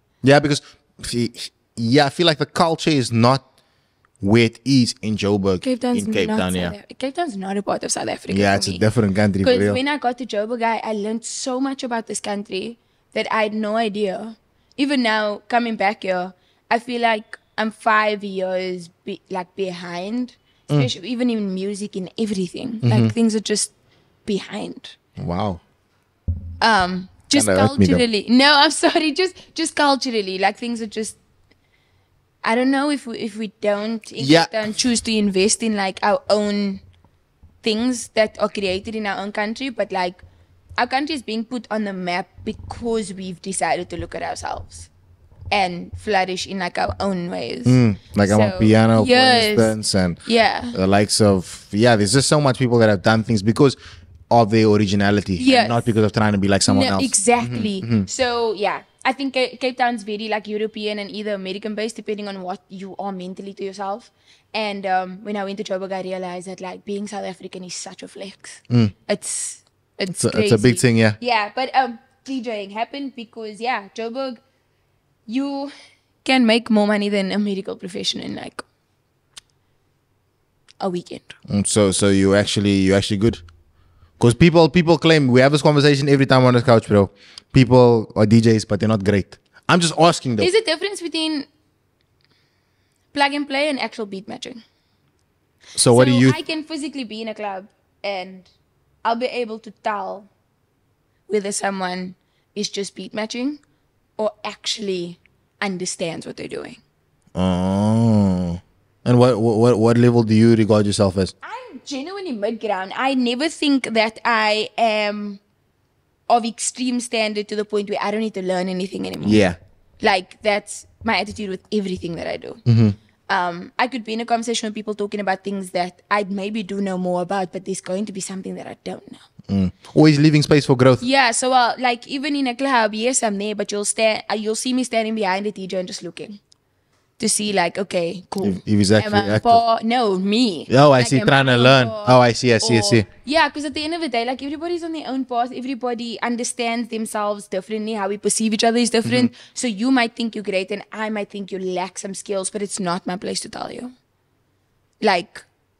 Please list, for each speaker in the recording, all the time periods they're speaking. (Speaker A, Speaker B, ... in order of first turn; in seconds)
Speaker A: 0.2-3.4, 4.2-6.8, 8.3-9.8, 22.8-23.1, 25.2-25.6, 27.3-28.0, 34.2-34.7, 47.6-50.2, 50.7-53.8, 54.3-58.1, 70.1-71.2, 81.5-83.4, 84.2-90.5, 95.7-96.4, 107.3-111.3, 119.2-119.6, 122.7-123.0, 129.5-131.0, 138.4-139.6, 140.7-143.1, 149.0-149.3
Speaker B: 5.6-8.8, 9.4-23.7, 24.2-25.0, 26.6-31.2, 32.4-36.8, 37.6-40.2, 40.8-44.9, 45.5-50.8, 55.4-55.9, 56.7-74.4, 75.3-75.7, 76.2-78.7, 80.8-81.3, 90.4-91.5, 93.1-94.6, 95.9-98.5, 99.0-100.3, 101.3-103.6, 104.2-106.8, 111.4-115.4, 116.3-119.4, 120.0-122.6, 123.3-129.2, 131.0-136.4, 137.2-153.9, 155.0-155.5